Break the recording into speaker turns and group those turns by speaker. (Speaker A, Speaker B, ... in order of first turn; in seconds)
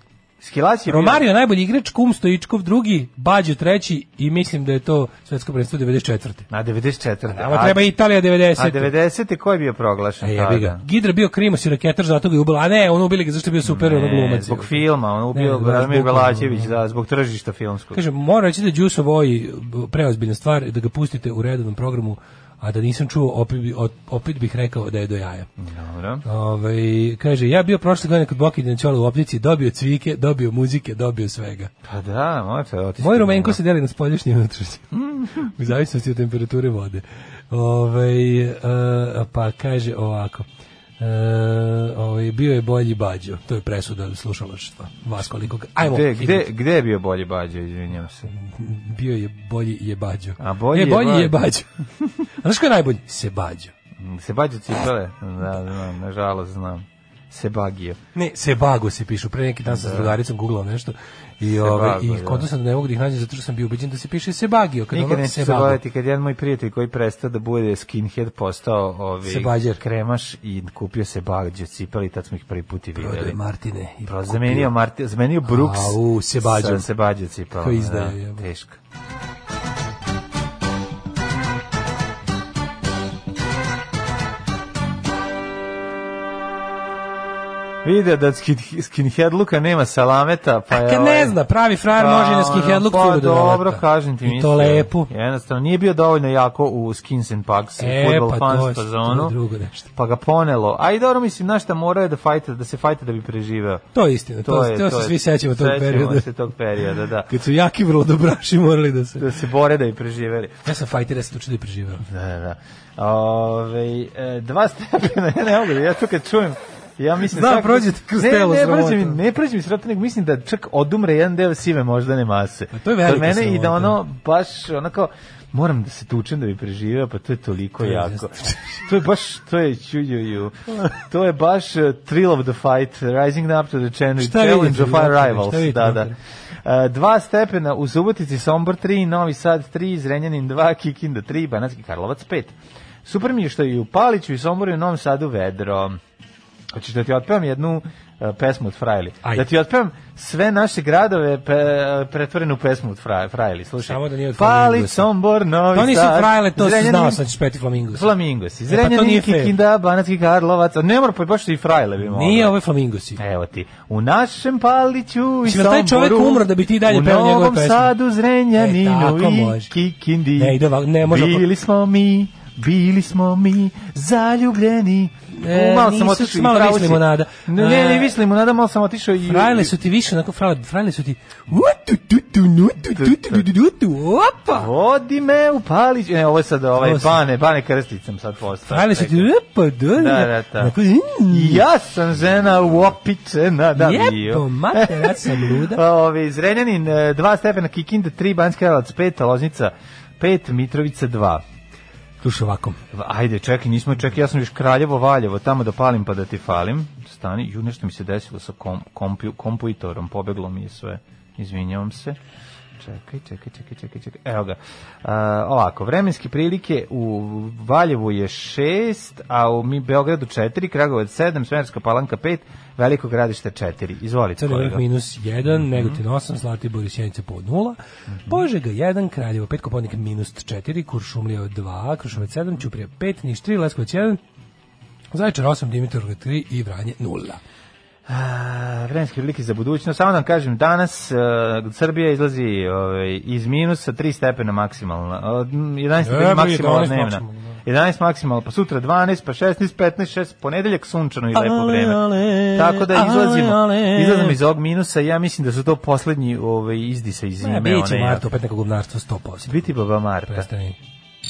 Speaker A: 0.4-1.2, 6.5-7.9, 8.6-10.8, 13.6-18.0, 25.6-26.2, 31.9-33.6, 34.9-35.5, 45.8-48.3, 50.4-51.4, 54.0-58.0, 59.7-60.2, 61.4-62.5, 64.9-73.4, 74.0-78.8, 87.8-91.4, 91.9-99.4, 99.9-103.9, 104.4-107.3, 109.2-110.6, 112.1-146.0, 146.7-157.3, 157.9-162.6, 163.2-179.7, 182.9-183.5, 184.5-189.3, 189.9-190.7, 191.3-201.4, 202.9-212.2, 212.8-224.8, 225.5-226.0, 238.1-258.3, 259.4-260.5
Speaker B: 0.9-6.5, 7.3-8.9, 10.2-16.7, 17.9-25.5, 26.2-31.7, 33.0-40.5, 41.0-46.5, 48.3-51.7, 52.4-53.7, 58.1-65.8, 69.2-69.8, 73.0-74.7, 75.5-76.9, 77.6-78.5, 90.7-95.1, 97.8-99.9, 103.9-106.3, 107.3-109.3, 110.7-112.0, 117.3-119.2, 122.7-124.0, 127.8-128.8, 134.2-136.2, 153.8-155.1, 155.7-158.1, 158.7-159.5, 162.0-163.2, 165.5-167.9, 168.6-169.7, 170.4-171.5, 175.3-178.1, 179.3-184.7, 186.8-187.2, 188.7-191.6, 193.8-195.8, 202.2-202.8, 224.4-234.2, 235.1-237.4, 246.0-247.6, 251.3-254.4, 257.4-259.6, 260.3-260.8